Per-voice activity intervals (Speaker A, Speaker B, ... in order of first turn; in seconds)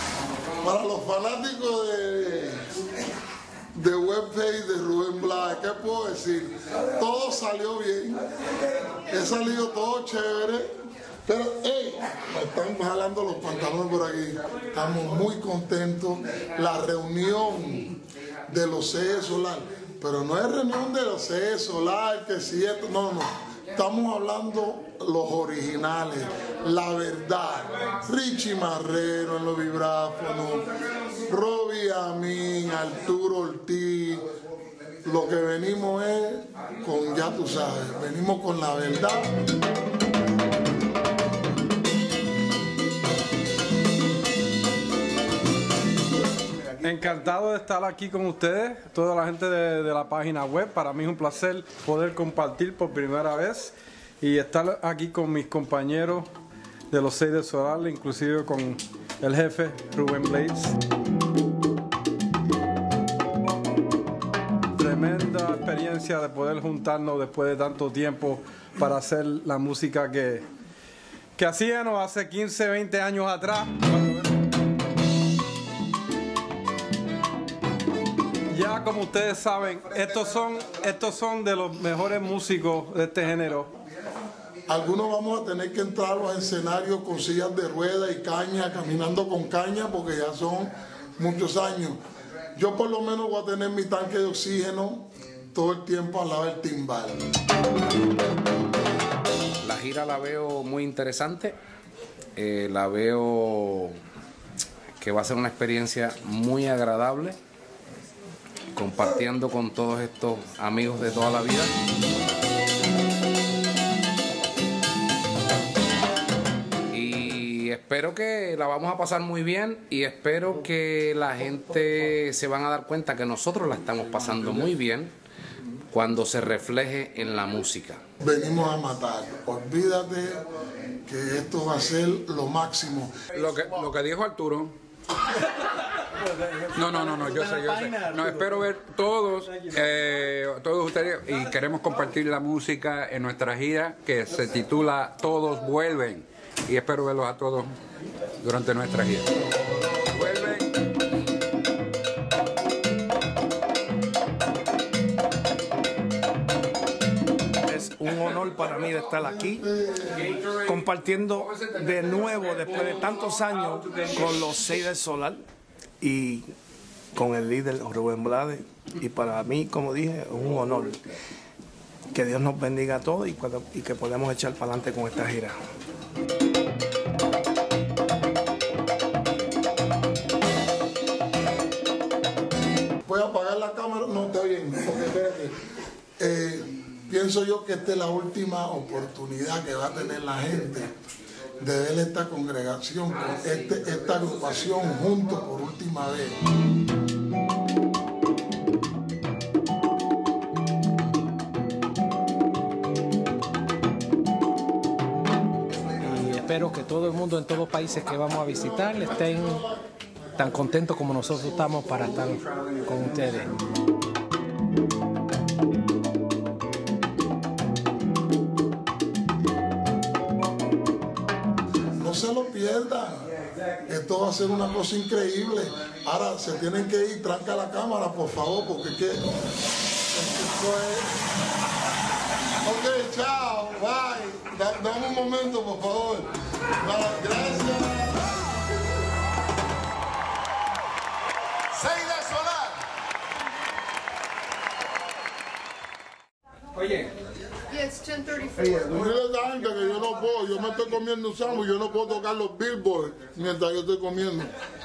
Speaker A: 0.6-2.6, 3.7-8.2, 9.0-10.7, 11.2-34.2, 35.0-39.3, 84.7-92.0, 92.5-97.2, 128.2-130.4, 131.0-133.2, 159.8-160.1, 183.0-185.5, 186.2-190.9, 191.6-196.4, 222.0-223.3, 223.8-229.2, 230.1-231.2, 232.6-238.3, 241.8-242.7, 248.4-254.5
Speaker B: 46.8-56.3, 56.9-60.8, 64.8-70.5, 71.3-74.2, 78.5-83.7
Speaker C: 99.6-101.6, 102.3-104.0, 105.0-107.4, 108.7-111.7, 116.9-125.1, 125.9-128.0
Speaker D: 133.3-134.7, 136.7-147.7, 148.4-149.3, 150.1-150.7
Speaker E: 157.7-159.7, 160.4-165.4, 166.0-166.4, 167.1-171.0, 172.1-175.6
Speaker F: 206.0-209.6, 210.4-213.5